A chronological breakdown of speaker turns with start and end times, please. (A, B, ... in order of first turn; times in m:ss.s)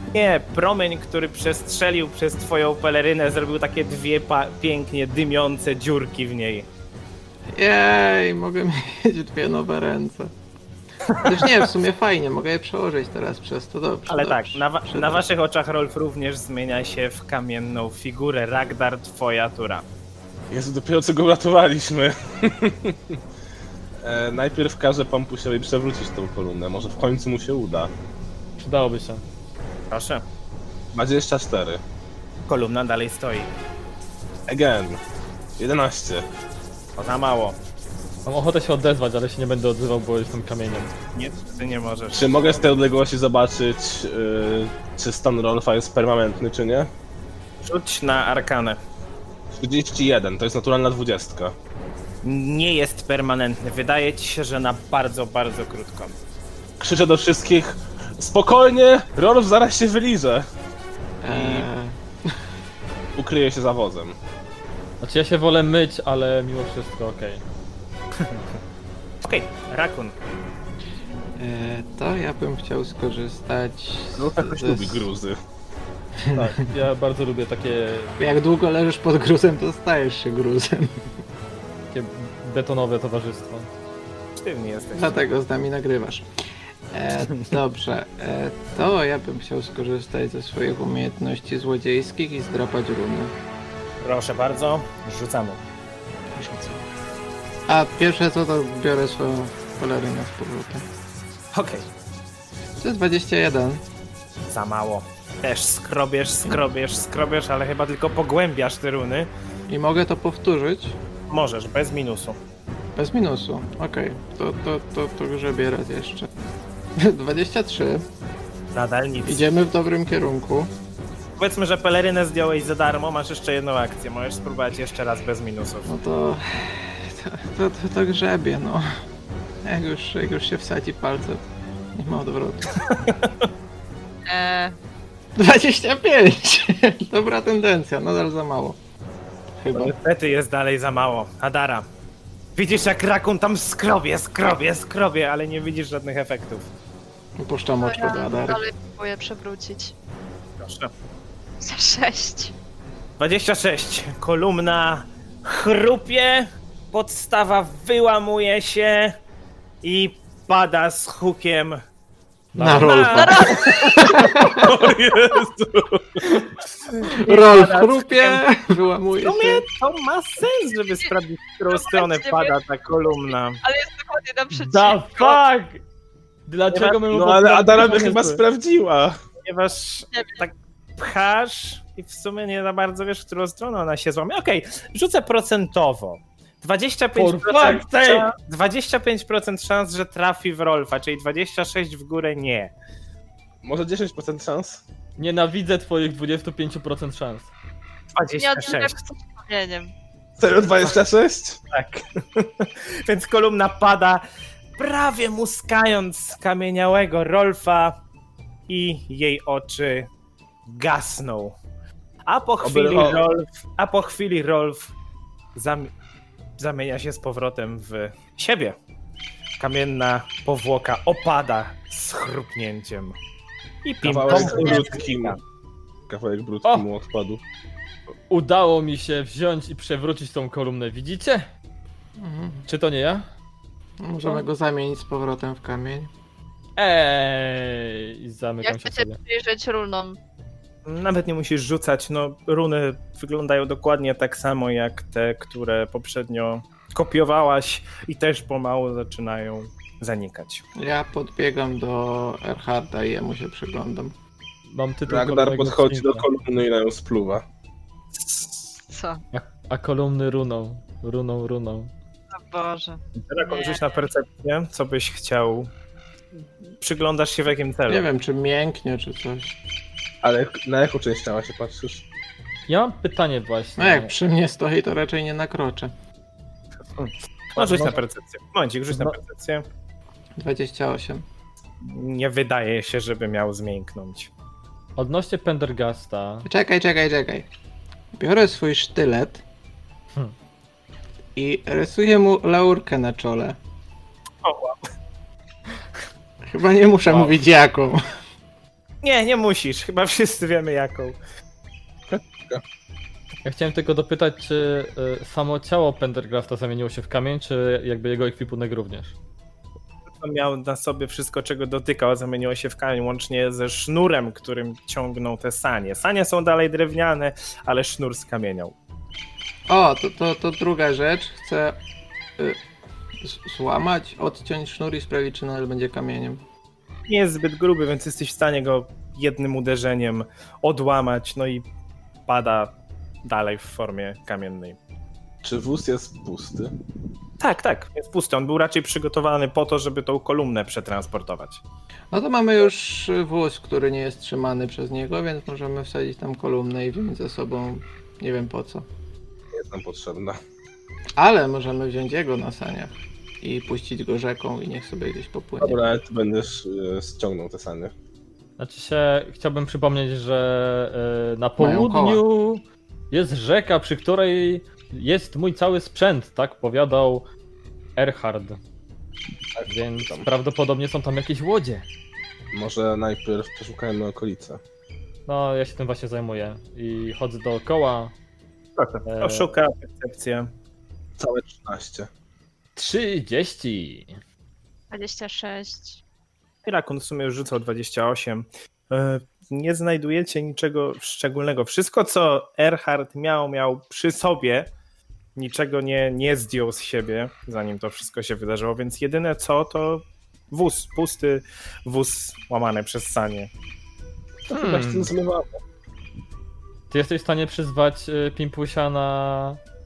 0:00.1-0:06.7 A
0:07.5-0:10.3 B
0:11.1-0:11.4 A
0:11.2-0:15.2 B
0:14.1-0:19.8 A
0:20.5-0:23.2 C
0:24.0-0:27.9 C
0:28.6-0:29.2 D
0:29.9-0:30.2 A
0:30.9-0:31.8 C
0:32.5-0:33.5 A
0:34.5-0:35.0 C
0:35.6-0:36.3 C
0:37.0-0:37.6 A
0:38.3-0:40.9 D
0:41.1-0:42.7 A
0:42.1-0:46.9 C
0:47.6-0:48.8 A
0:49.5-0:51.6 C
0:52.2-0:56.1 A
0:56.8-1:00.5 C
1:01.2-1:02.3 B
1:01.3-1:01.7 C
1:03.2-1:04.2 C
1:05.0-1:07.4 D
1:09.2-1:10.2 A
1:11.4-1:15.1 B
1:14.2-1:15.4 C
1:16.2-1:16.5 B
1:16.3-1:18.2 D
1:18.2-1:21.0 B
1:21.9-1:23.7 D
1:24.4-1:25.2 A
1:24.9-1:26.3 B
1:26.9-1:33.3 B
1:34.0-1:35.6 A
1:36.3-1:36.9 B
1:37.7-1:40.8 B
1:41.5-1:41.9 A
1:42.8-1:43.8 B
1:44.5-1:49.3 A
1:49.7-1:51.0 B
1:51.3-1:52.4 A
1:53.0-1:56.3 B
1:57.0-1:58.1 B
1:58.7-1:59.5 A
1:59.2-2:00.7 B
2:01.4-2:05.9 A
2:05.9-2:08.9 B
2:09.6-2:11.4 B
2:12.0-2:12.8 B
2:12.9-2:13.5 A
2:14.3-2:14.8 E
2:15.4-2:18.8 B
2:19.6-2:20.0 B
2:19.7-2:21.9 A
2:22.6-2:26.7 A
2:27.4-2:28.6 B
2:27.8-2:29.9 E
2:30.6-2:30.9 A
2:31.6-2:32.5 E
2:33.2-2:39.2 A
2:39.8-2:41.8 A
2:42.6-2:43.3 D
2:42.6-2:44.7 B
2:42.8-2:43.6 A
2:43.1-2:44.4 E
2:44.5-2:46.2 C
2:47.0-2:48.4 A
2:47.1-2:49.7 B
2:49.2-2:53.6 A
2:51.7-2:52.6 E
2:53.1-2:55.4 E
2:54.5-2:55.8 D
2:56.5-2:58.4 D
2:56.7-2:57.0 A
2:57.1-2:59.2 C
2:59.4-3:12.7 A
3:00.1-3:00.4 E
3:07.2-3:08.3 D
3:13.6-3:14.8 C
3:15.2-3:17.5 D
3:18.1-3:18.9 A
3:18.4-3:19.9 E
3:20.4-3:21.6 C
3:21.7-3:24.2 A
3:24.8-3:28.0 A
3:28.7-3:30.1 A
3:30.7-3:31.6 A
3:32.3-3:34.9 A
3:32.6-3:33.2 C
3:35.6-3:35.9 A
3:36.6-3:38.8 A
3:39.6-3:43.2 A
3:43.8-3:45.4 A
3:44.0-3:45.4 C
3:44.4-3:44.8 E
3:46.1-3:47.4 C
3:48.3-3:51.5 D
3:52.2-3:52.7 B
3:52.7-3:53.3 D
3:54.0-3:56.1 B
3:56.8-3:59.2 D
3:58.6-4:00.2 E
4:00.9-4:10.6 A
4:10.8-4:14.1 B
4:14.7-4:16.3 D
4:15.1-4:17.4 C
4:18.2-4:18.5 A
4:18.9-4:19.2 E
4:19.3-4:21.9 D
4:22.3-4:23.9 E
4:23.2-4:25.7 A
4:26.8-4:28.1 A
4:27.9-4:29.6 B
4:30.2-4:32.0 C
4:32.7-4:34.1 D
4:33.8-4:35.9 B
4:37.0-4:39.6 A
4:40.4-4:41.2 B
4:41.8-4:44.3 A
4:45.0-4:46.5 D
4:46.5-4:47.5 B
4:48.2-4:49.4 B
4:51.4-4:53.6 B
4:54.4-4:54.9 A
4:56.4-4:58.0 B
4:59.0-5:01.2 A
5:02.1-5:02.6 C
5:03.4-5:09.2 D
5:10.2-5:18.7 A
5:19.7-5:21.8 B
5:23.2-5:26.4 B
5:27.1-5:31.6 A
5:32.3-5:34.8 A
5:35.4-5:36.7 C
5:37.4-5:41.6 A
5:42.1-5:48.9 B
5:49.5-5:50.4 C
5:51.2-5:55.8 B
5:55.6-5:57.9 C
5:58.6-6:07.2 D
6:01.6-6:02.2 B
6:08.0-6:08.6 D
6:09.6-6:10.3 C
6:09.7-6:11.9 D
6:12.5-6:14.6 C
6:15.3-6:18.1 D
6:18.8-6:20.5 A
6:19.0-6:19.5 D
6:21.2-6:22.1 C
6:22.8-6:24.2 D
6:24.9-6:26.0 E
6:26.6-6:34.7 A
6:35.4-6:43.5 A
6:44.5-6:45.6 C
6:44.5-6:45.1 D
6:46.9-6:49.6 D